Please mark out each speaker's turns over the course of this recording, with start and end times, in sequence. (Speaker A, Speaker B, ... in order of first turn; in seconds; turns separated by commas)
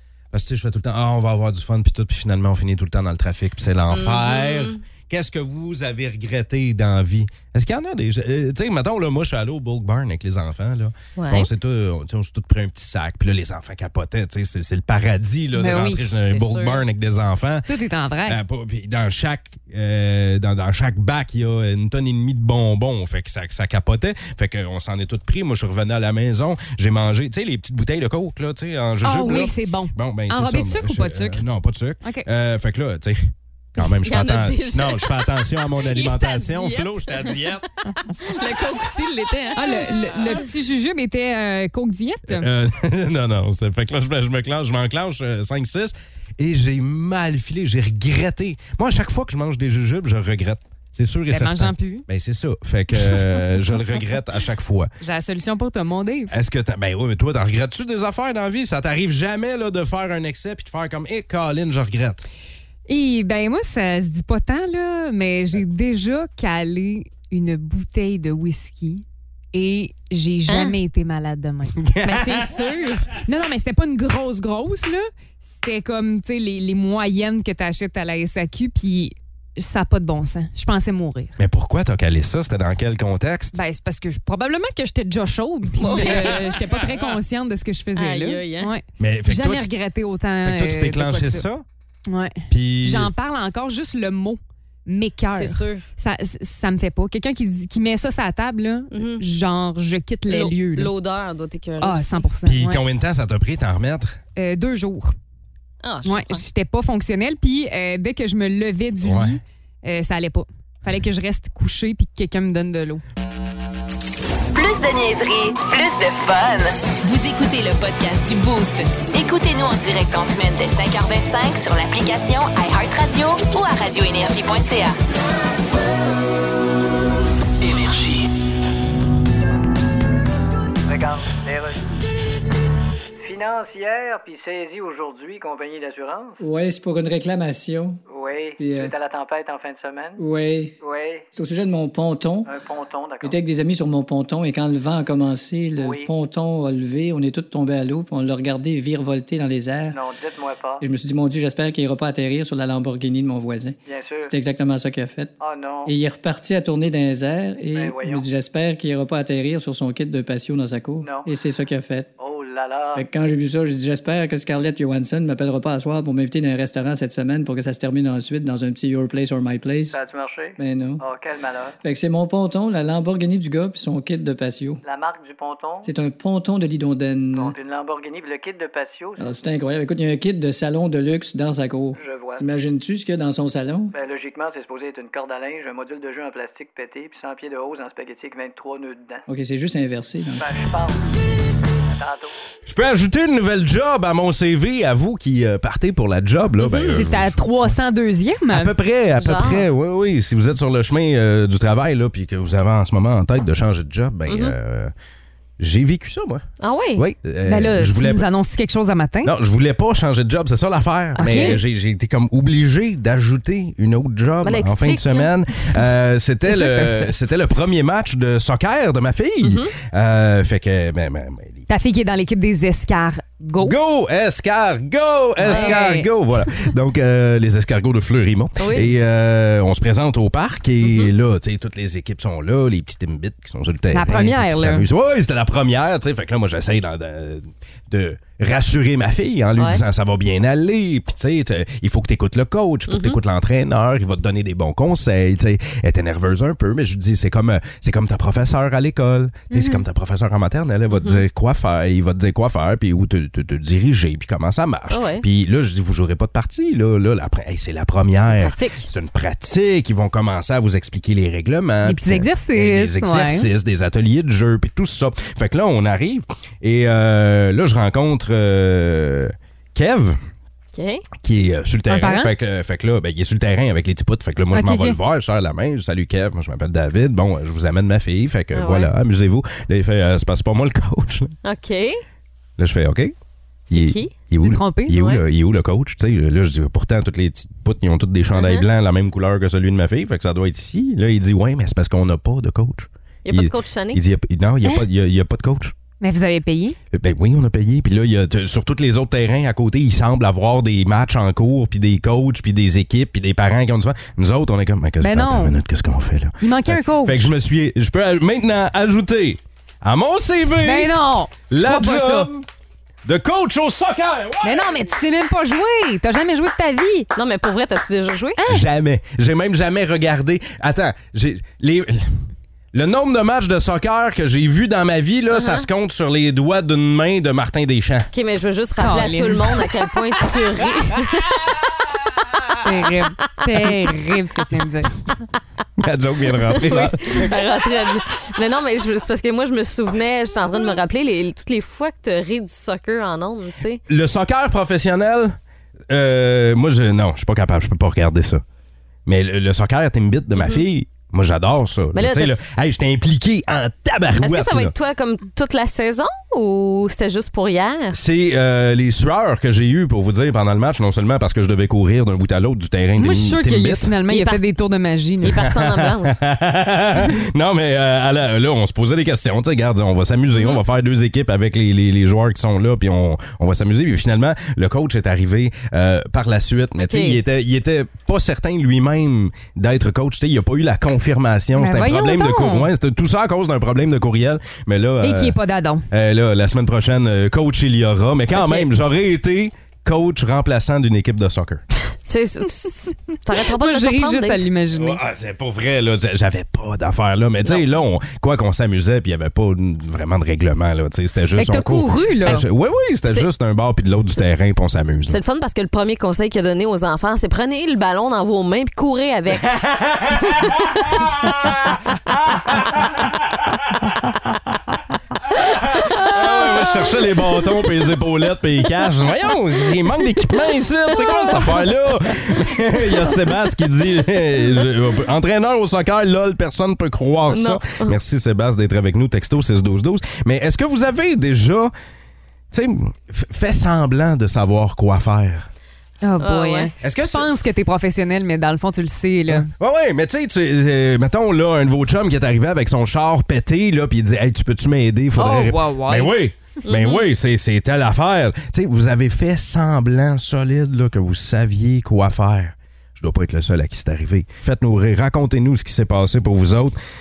Speaker A: 0.3-17.7, Speaker B: 3.9-4.8, Speaker B: 11.2-11.5, Speaker C: 15.5-16.1, Speaker B: 16.1-16.8, Speaker C: 17.6-18.4, Speaker A: 18.3-37.6, Speaker C: 29.0-31.4, Speaker B: 33.8-37.6, Speaker B: 38.2-40.4, Speaker C: 39.5-42.5, Speaker A: 42.3-54.9, Speaker C: 51.3-52.0, Speaker C: 55.0-56.3, Speaker A: 56.3-62.2, Speaker C: 62.9-72.3, Speaker B: 70.5-70.8, Speaker A: 71.8-72.6, Speaker B: 72.0-73.1, Speaker C: 73.2-81.3, Speaker A: 81.4-83.6, Speaker C: 83.5-91.5, Speaker B: 85.8-86.6, Speaker A: 85.8-86.8, Speaker B: 87.9-88.7, Speaker A: 89.0-89.7, Speaker A: 90.4-91.6, Speaker C: 92.1-100.9, Speaker A: 92.5-93.1, Speaker B: 95.3-95.8, Speaker B: 98.9-99.2, Speaker B: 100.3-102.3, Speaker C: 101.8-102.8, Speaker A: 102.4-104.2, Speaker C: 104.3-105.1, Speaker B: 105.8-106.4, Speaker C: 106.0-113.0, Speaker A: 109.0-109.4, Speaker D: 114.5-125.0, Speaker D: 127.7-128.2, Speaker E: 130.8-131.8, Speaker E: 133.2-136.4, Speaker F: 136.4-138.0, Speaker E: 138.1-140.2, Speaker F: 138.6-138.9, Speaker F: 140.2-140.8, Speaker E: 140.8-141.3, Speaker F: 141.3-142.5, Speaker E: 142.4-143.4, Speaker F: 143.2-150.0, Speaker E: 145.8-146.1, Speaker E: 149.9-150.8, Speaker F: 150.8-155.3, Speaker E: 153.8-154.3, Speaker E: 155.4-155.9, Speaker F: 155.8-162.1, Speaker E: 157.7-158.3, Speaker E: 161.0-161.3, Speaker E: 162.2-163.1, Speaker F: 162.9-170.0, Speaker E: 169.9-171.8, Speaker F: 170.6-171.0, Speaker F: 171.8-174.8, Speaker E: 174.8-175.9, Speaker F: 175.8-177.5, Speaker E: 177.3-179.3, Speaker F: 179.2-183.9, Speaker E: 181.9-182.4, Speaker E: 183.9-189.3, Speaker F: 189.3-190.5, Speaker E: 190.3-191.1, Speaker E: 191.9-192.3, Speaker A: 192.7-197.8, Speaker B: 196.6-197.0, Speaker C: 196.8-198.7, Speaker A: 198.5-204.9, Speaker B: 199.2-199.7, Speaker B: 204.3-204.6, Speaker A: 205.6-208.3, Speaker B: 206.6-207.0, Speaker C: 207.4-209.3, Speaker A: 209.2-221.7, Speaker C: 211.2-211.6, Speaker B: 211.2-211.6, Speaker B: 214.4-215.3, Speaker C: 216.5-217.0, Speaker B: 219.4-219.7, Speaker C: 221.7-223.8, Speaker A: 223.6-270.2, Speaker C: 225.4-226.1, Speaker B: 225.4-225.9, Speaker B: 228.6-228.9, Speaker B: 230.8-231.1, Speaker C: 233.9-234.9, Speaker B: 239.6-239.8, Speaker B: 242.9-243.2, Speaker B: 250.9-251.2, Speaker B: 254.9-255.2, Speaker B: 258.3-258.9, Speaker C: 261.8-263.5, Speaker B: 270.7-271.0, Speaker A: 271.2-281.4, Speaker C: 271.9-272.3, Speaker C: 274.5-275.0, Speaker B: 278.5-278.9, Speaker B: 281.4-282.0, Speaker A: 282.6-283.1, Speaker B: 283.7-284.2, Speaker A: 283.7-295.7, Speaker C: 284.4-285.2, Speaker B: 284.9-285.2, Speaker B: 288.3-288.6, Speaker B: 293.2-294.0, Speaker C: 296.0-296.8, Speaker A: 296.9-310.9, Speaker C: 305.0-305.6, Speaker C: 306.4-307.3, Speaker C: 310.6-312.3, Speaker A: 311.5-312.4, Speaker A: 313.0-314.9, Speaker C: 314.4-317.1, Speaker B: 317.1-318.4, Speaker C: 318.4-318.6, Speaker A: 318.5-322.2, Speaker A: 322.7-328.1, Speaker B: 325.3-325.6, Speaker B: 328.1-331.3, Speaker C: 328.8-329.6, Speaker C: 332.6-334.9, Speaker A: 335.8-337.6, Speaker B: 336.4-343.8, Speaker A: 343.9-345.4, Speaker A: 345.9-348.4, Speaker A: 349.1-354.7, Speaker B: 350.4-350.6, Speaker B: 351.9-352.4, Speaker B: 354.2-358.0, Speaker A: 357.9-363.9, Speaker C: 363.0-365.4, Speaker B: 364.1-364.4, Speaker B: 365.2-366.2, Speaker A: 365.3-385.4, Speaker B: 376.8-377.2, Speaker C: 381.6-382.7, Speaker C: 385.0-385.8, Speaker A: 385.9-391.6, Speaker B: 388.3-388.6, Speaker B: 392.1-394.4, Speaker C: 393.5-395.0, Speaker A: 394.7-405.2, Speaker C: 401.4-402.4, Speaker B: 405.1-409.5, Speaker A: 409.4-411.7, Speaker A: 412.4-413.0, Speaker A: 415.4-431.7, Speaker B: 420.9-421.7, Speaker B: 427.3-427.9, Speaker A: 432.5-435.5, Speaker C: 436.0-439.5, Speaker B: 436.2-436.7, Speaker A: 436.8-437.3, Speaker A: 439.3-456.8, Speaker C: 445.2-446.1, Speaker B: 446.6-447.0